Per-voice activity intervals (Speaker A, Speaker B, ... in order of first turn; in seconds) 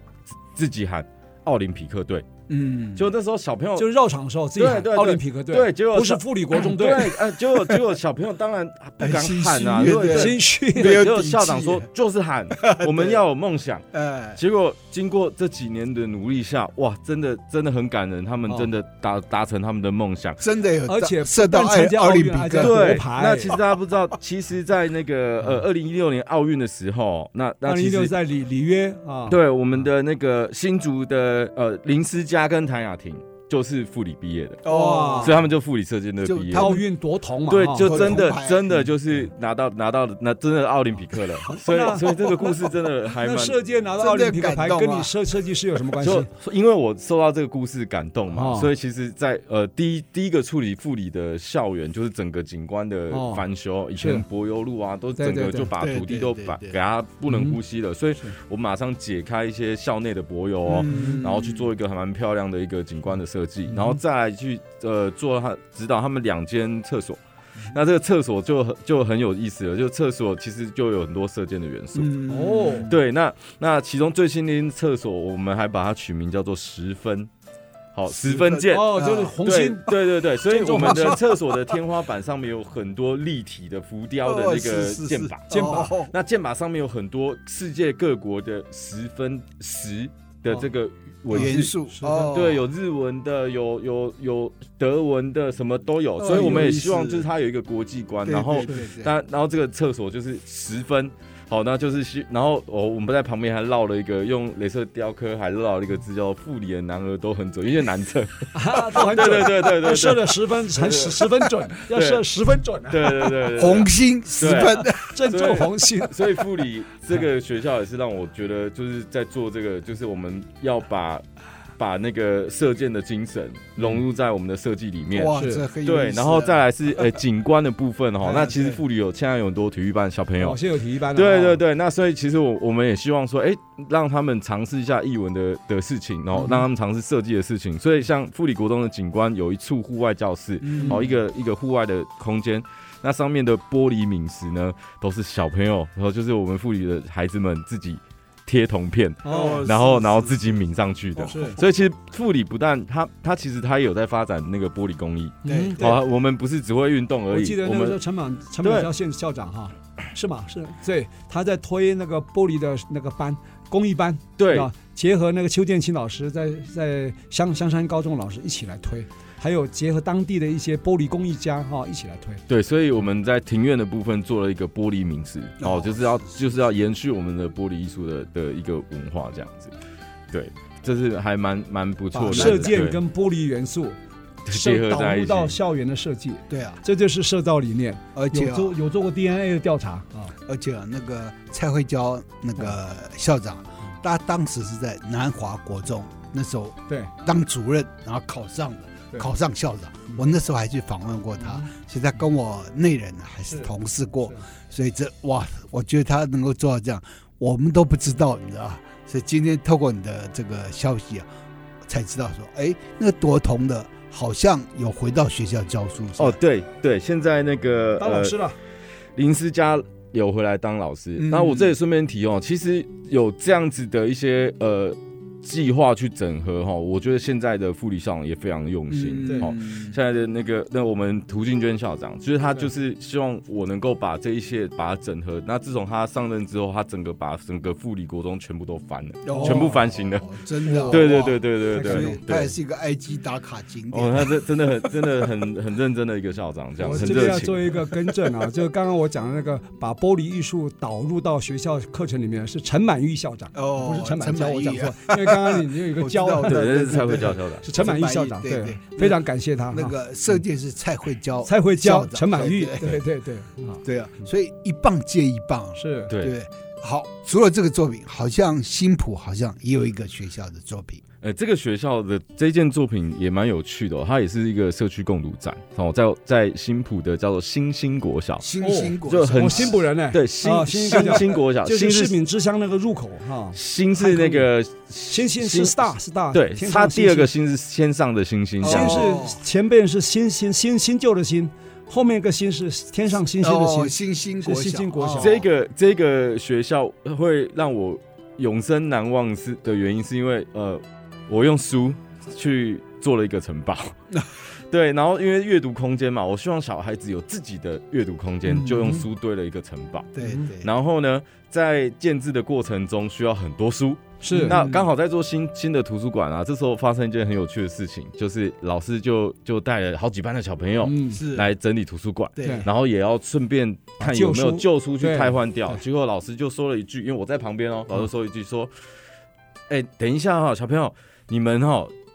Speaker A: 0.5-2.3, 2.9-3.9, 4.5-20.4, 22.6-28.1, 29.3-34.6, 35.2-36.8, 37.5-43.6, 46.0-67.2, 67.7-72.1, 72.9-77.3, 77.9-112.3, 112.9-121.2, 121.8-130.6, 131.1-158.0, 158.6-158.9, 164.4-164.7, 172.5-179.7, 180.3-183.0, 184.4-185.5, 216.2-218.4, 219.2-240.3, 240.9-242.5, 243.9-247.7, 256.4-257.7, 271.2-278.5, 279.0-282.1, 283.5-289.0, 295.2-328.7, 329.7-331.9
Speaker B: 2.5-3.1, 9.0-11.9, 12.5-13.2, 13.9-14.4, 20.4-23.0, 34.6-35.5, 36.2-36.8, 37.8-38.9, 44.0-45.1, 55.8-56.8, 60.6-61.7, 71.9-73.0, 78.1-79.3, 80.7-81.2, 84.2-86.1, 91.3-92.7, 96.2-97.2, 98.2-99.1, 113.5-115.2, 125.1-126.6, 128.3-128.8, 140.6-141.2, 149.2-150.4, 151.2-151.4, 155.4-155.9, 175.6-176.6, 182.3-182.8, 186.5-186.8, 188.1-188.7, 190.4-211.3, 211.9-216.4, 221.2-221.7, 228.9-230.0, 239.2-245.3, 246.8-248.2, 253.5-263.0, 263.8-271.0, 278.4-279.8, 281.0-281.4, 288.6-289.4, 293.4-295.4, 310.1-310.7, 314.3-314.9, 321.1-321.5, 322.4-322.7
Speaker C: 3.8-7.1, 9.8-11.1, 20.9-23.5, 27.6-29.4, 34.7-35.3, 36.5-38.2, 41.6-42.6, 43.2-46.3, 48.3-48.7, 53.1-53.4, 54.0-54.2, 55.2-55.7, 57.3-57.6, 60.9-61.2, 63.7-64.0, 72.3-72.9, 78.7-81.2, 85.5-85.9, 91.3-92.4, 96.3-96.8, 108.5-113.3, 114.9-116.1, 125.3-125.6, 130.4-131.6, 149.2-149.7, 151.3-151.6, 155.4-156.0, 157.3-172.4, 182.1-184.0, 184.5-190.3, 201.4-201.7, 218.0-218.6, 239.3-239.7, 240.6-242.2, 246.9-257.0, 257.6-259.9, 261.4-263.8, 265.8-266.1, 278.6-284.5, 285.1-287.3, 288.6-295.4, 308.7-309.0, 310.2-310.5, 314.2-314.6, 320.8-321.2, 324.0-325.8